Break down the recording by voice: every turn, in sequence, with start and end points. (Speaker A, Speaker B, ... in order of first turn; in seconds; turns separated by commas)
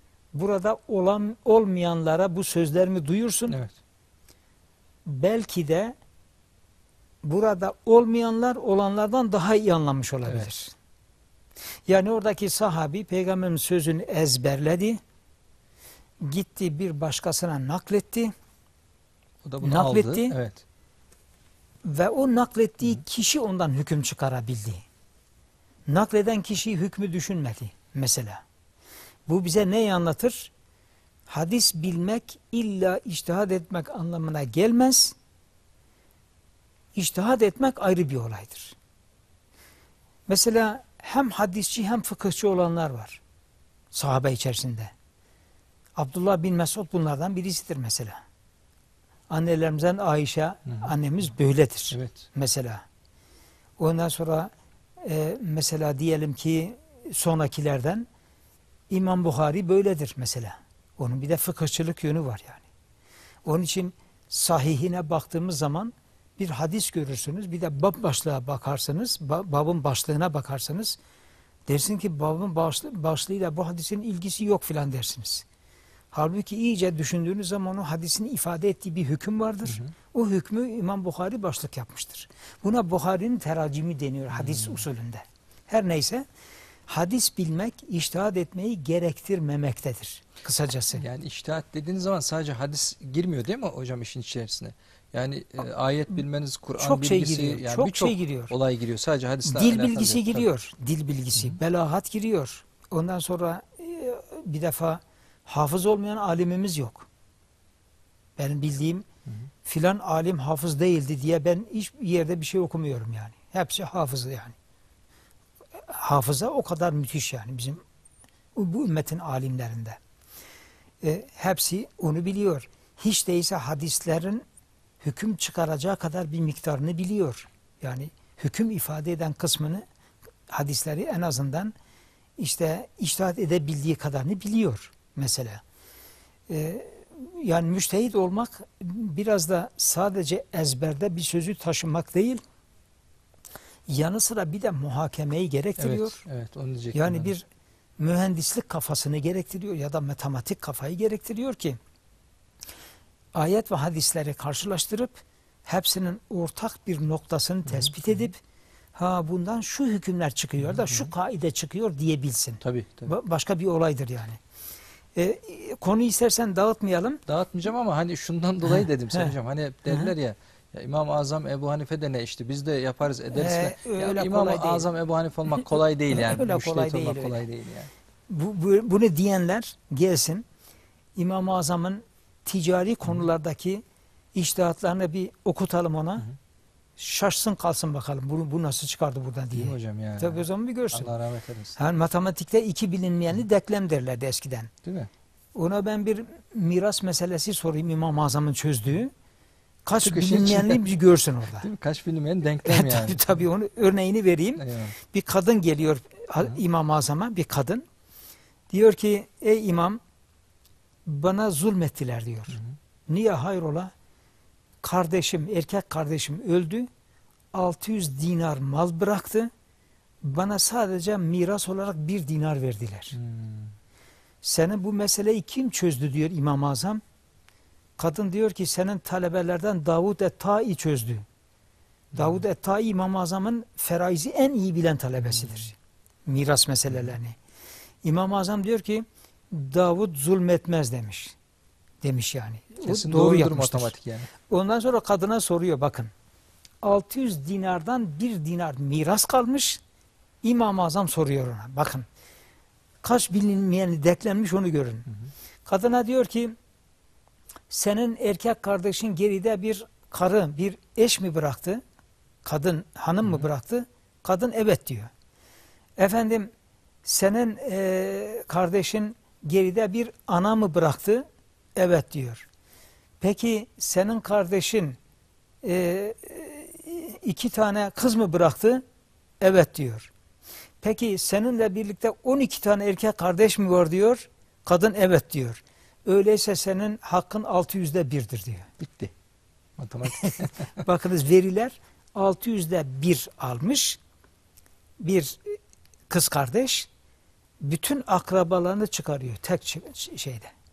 Speaker A: 0.3-3.6, Speaker A: 5.0-5.9, Speaker A: 7.2-10.7, Speaker A: 11.9-15.0, Speaker A: 16.2-18.3, Speaker B: 19.4-20.6, Speaker A: 19.6-20.4, Speaker A: 21.8-24.8, Speaker A: 25.9-28.4, Speaker A: 29.3-30.5, Speaker A: 31.3-35.1, Speaker A: 36.9-38.8, Speaker A: 40.3-43.2, Speaker A: 43.9-44.9, Speaker A: 46.0-48.2, Speaker A: 49.3-52.8, Speaker B: 51.9-52.2, Speaker A: 53.8-58.1, Speaker A: 58.9-62.6, Speaker A: 63.4-71.0, Speaker A: 71.7-75.4, Speaker A: 76.1-86.2, Speaker B: 84.4-84.8, Speaker A: 86.9-91.0, Speaker B: 90.9-100.5, Speaker A: 96.8-98.5, Speaker A: 99.4-107.1, Speaker A: 108.4-109.0, Speaker A: 109.6-114.5, Speaker A: 115.8-117.8, Speaker A: 118.5-120.0, Speaker A: 121.0-124.4, Speaker A: 125.0-129.8, Speaker A: 130.5-131.7, Speaker A: 132.4-135.6, Speaker A: 136.5-142.4, Speaker A: 143.9-146.2, Speaker B: 145.8-147.3, Speaker A: 146.9-147.4, Speaker A: 148.0-151.8, Speaker A: 153.3-158.4, Speaker A: 158.9-164.4, Speaker B: 162.6-163.1, Speaker A: 165.2-167.2, Speaker B: 167.3-177.9, Speaker A: 173.3-174.9, Speaker A: 176.1-177.4, Speaker A: 178.3-180.4, Speaker A: 181.2-183.8, Speaker A: 184.3-186.3, Speaker A: 187.0-191.1, Speaker B: 189.5-191.8, Speaker A: 191.8-194.7, Speaker B: 194.8-195.1, Speaker A: 195.5-199.1, Speaker A: 199.8-201.7, Speaker B: 200.0-200.9, Speaker B: 201.6-203.4, Speaker A: 202.6-207.8, Speaker B: 204.6-204.9, Speaker A: 208.7-210.0, Speaker A: 211.1-213.9, Speaker A: 214.8-216.9, Speaker A: 217.5-219.5, Speaker A: 220.2-223.2, Speaker B: 223.2-223.7, Speaker A: 224.4-227.0, Speaker A: 228.0-231.2, Speaker B: 232.1-232.4, Speaker A: 232.2-235.8, Speaker B: 235.3-235.6, Speaker A: 236.3-237.4, Speaker A: 238.0-241.3, Speaker A: 242.0-243.9, Speaker B: 242.8-244.3, Speaker A: 244.5-246.1, Speaker A: 246.8-249.8, Speaker A: 250.4-252.1, Speaker A: 253.0-255.1, Speaker A: 255.7-256.6, Speaker A: 257.7-261.8, Speaker A: 262.4-265.1, Speaker A: 266.0-266.5, Speaker A: 267.0-271.2, Speaker A: 271.8-272.4, Speaker A: 273.2-275.0, Speaker A: 275.6-278.8, Speaker A: 279.4-280.1, Speaker A: 280.8-288.7, Speaker B: 288.8-289.1, Speaker B: 289.8-290.8, Speaker A: 290.2-294.0, Speaker A: 295.0-295.6, Speaker A: 296.1-296.9, Speaker A: 297.6-300.5